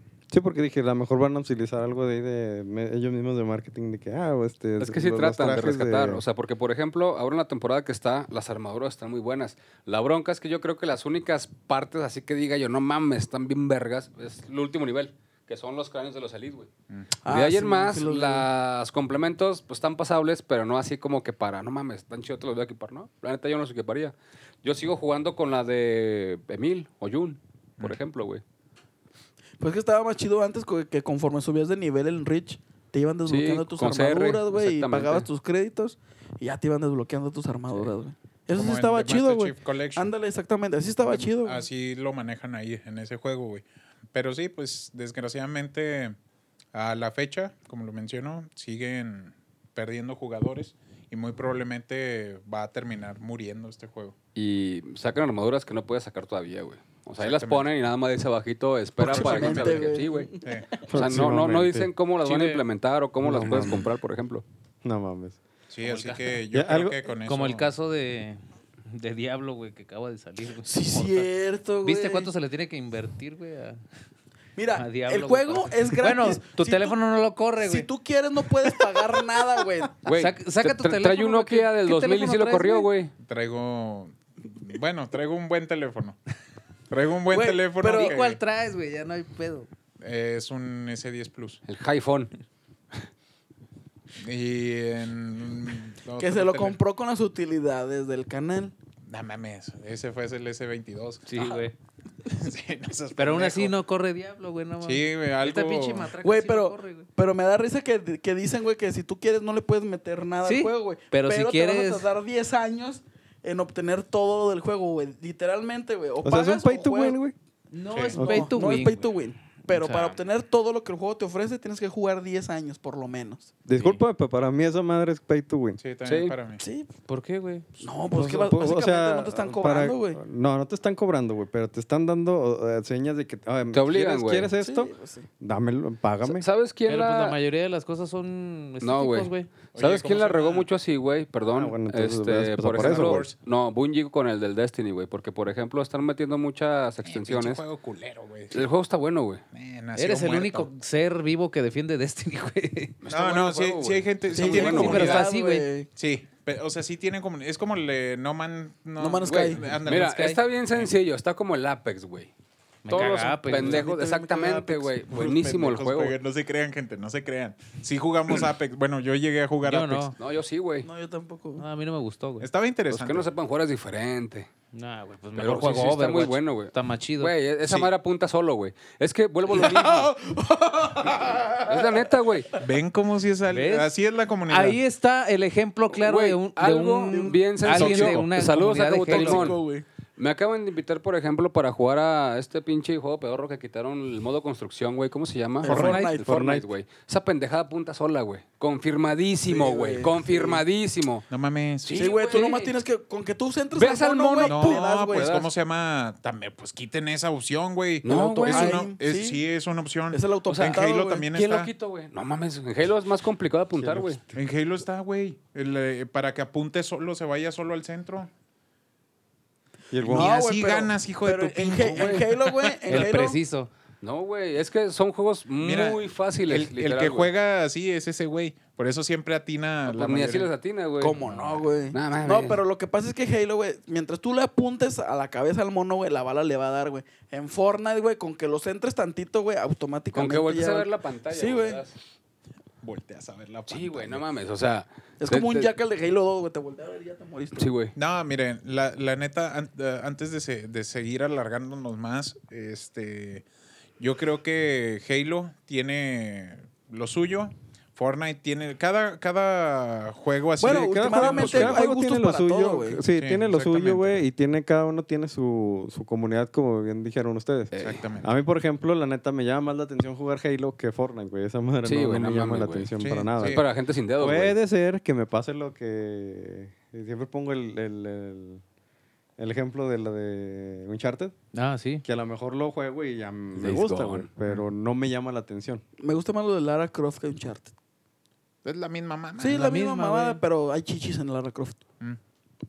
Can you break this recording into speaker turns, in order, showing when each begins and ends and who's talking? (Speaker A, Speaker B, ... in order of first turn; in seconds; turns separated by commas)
Speaker A: 0.3-6.2, Speaker B: 4.8-16.7, Speaker C: 17.2-18.5, Speaker B: 17.3-28.4, Speaker C: 29.6-41.6, Speaker B: 33.2-35.3, Speaker D: 38.5-40.1, Speaker D: 41.0-46.1, Speaker D: 46.7-54.1, Speaker B: 54.3-64.4, Speaker D: 57.2-57.7, Speaker C: 59.0-60.6, Speaker D: 59.0-60.7, Speaker A: 60.9-61.9, Speaker E: 62.2-62.6, Speaker A: 63.2-63.9, Speaker A: 64.8-65.4, Speaker D: 65.7-67.7, Speaker E: 65.8-66.4, Speaker A: 66.5-67.0, Speaker E: 67.2-71.3, Speaker C: 70.6-72.3, Speaker E: 71.8-73.8, Speaker C: 74.5-76.9, Speaker E: 74.7-77.9, Speaker C: 77.6-79.9, Speaker E: 80.0-82.9, Speaker B: 80.0-83.1, Speaker D: 83.2-86.2, Speaker D: 86.9-88.4, Speaker C: 87.3-88.2, Speaker E: 87.8-89.7, Speaker D: 90.0-91.6, Speaker B: 91.7-92.3, Speaker D: 94.2-96.8, Speaker C: 96.2-98.7, Speaker D: 99.1-101.6, Speaker E: 101.2-101.7, Speaker D: 102.3-103.7, Speaker E: 103.2-107.1, Speaker D: 104.8-106.2, Speaker C: 106.2-117.2, Speaker E: 110.4-112.1, Speaker A: 116.2-117.3, Speaker E: 117.7-119.1, Speaker D: 117.9-118.3, Speaker A: 118.1-118.6, Speaker C: 118.2-123.5, Speaker E: 119.7-120.2, Speaker A: 123.7-125.8, Speaker E: 123.7-124.0, Speaker D: 125.8-126.6, Speaker B: 126.0-126.3, Speaker C: 126.6-126.9, Speaker E: 127.1-127.7, Speaker C: 127.8-130.2, Speaker A: 128.1-136.4, Speaker B: 133.7-134.5, Speaker C: 134.6-135.3, Speaker B: 136.2-137.4, Speaker E: 136.9-139.5, Speaker B: 138.8-147.6, Speaker D: 139.7-140.7, Speaker A: 141.5-143.2, Speaker D: 142.8-143.4, Speaker D: 147.0-148.6, Speaker B: 148.5-149.4, Speaker D: 149.5-150.7, Speaker E: 149.9-152.9, Speaker B: 153.0-155.2, Speaker D: 153.1-155.3, Speaker C: 154.3-155.9, Speaker E: 154.7-155.7, Speaker D: 155.9-160.9, Speaker C: 159.0-159.6, Speaker B: 159.2-162.3, Speaker E: 159.9-160.3, Speaker E: 162.8-163.8, Speaker B: 162.9-166.2, Speaker C: 163.5-165.0, Speaker D: 165.1-170.1, Speaker E: 169.6-170.2, Speaker B: 170.2-170.9, Speaker C: 170.8-171.6, Speaker E: 171.6-172.5, Speaker D: 172.4-173.3, Speaker B: 172.9-174.5, Speaker E: 174.7-177.3, Speaker B: 175.3-180.1, Speaker D: 177.6-177.9, Speaker C: 179.4-182.1, Speaker B: 181.6-182.5, Speaker D: 182.6-184.8, Speaker E: 183.5-183.9, Speaker E: 184.5-189.5, Speaker B: 185.9-189.6, Speaker C: 187.1-187.4, Speaker D: 187.8-188.3, Speaker C: 189.1-189.8, Speaker B: 190.2-201.3, Speaker C: 195.6-196.5, Speaker E: 195.7-196.1, Speaker A: 196.2-196.6, Speaker C: 199.5-200.6, Speaker D: 201.3-202.2, Speaker B: 201.8-202.8, Speaker C: 201.9-205.3, Speaker B: 203.7-205.5, Speaker D: 204.4-211.7, Speaker B: 208.0-208.8, Speaker C: 208.1-209.4, Speaker C: 210.1-211.3, Speaker B: 210.5-210.8, Speaker B: 211.3-214.2, Speaker A: 213.7-214.3, Speaker D: 214.3-218.3, Speaker A: 219.9-220.4, Speaker D: 220.0-223.1, Speaker C: 220.1-223.4, Speaker B: 221.8-222.2, Speaker E: 222.9-223.7, Speaker B: 224.0-227.3, Speaker D: 225.6-230.5, Speaker B: 229.8-231.2, Speaker C: 231.0-241.8, Speaker D: 231.2-231.6, Speaker B: 231.9-232.6, Speaker B: 240.1-242.0, Speaker D: 242.8-244.2, Speaker B: 243.7-245.7, Speaker C: 245.2-247.7, Speaker B: 247.6-247.9, Speaker D: 247.9-253.4, Speaker D: 254.0-261.8, Speaker C: 260.6-263.0, Speaker A: 260.6-273.6, Speaker D: 263.1-264.2, Speaker B: 267.7-268.0, Speaker D: 267.8-268.3, Speaker B: 271.8-274.6, Speaker D: 273.0-273.6, Speaker A: 274.2-278.6, Speaker A: 279.4-281.3, Speaker E: 281.5-282.0, Speaker A: 282.0-285.8, Speaker B: 283.6-284.3, Speaker C: 286.0-287.7, Speaker D: 288.6-289.7, Speaker C: 289.4-291.8, Speaker E: 289.5-290.4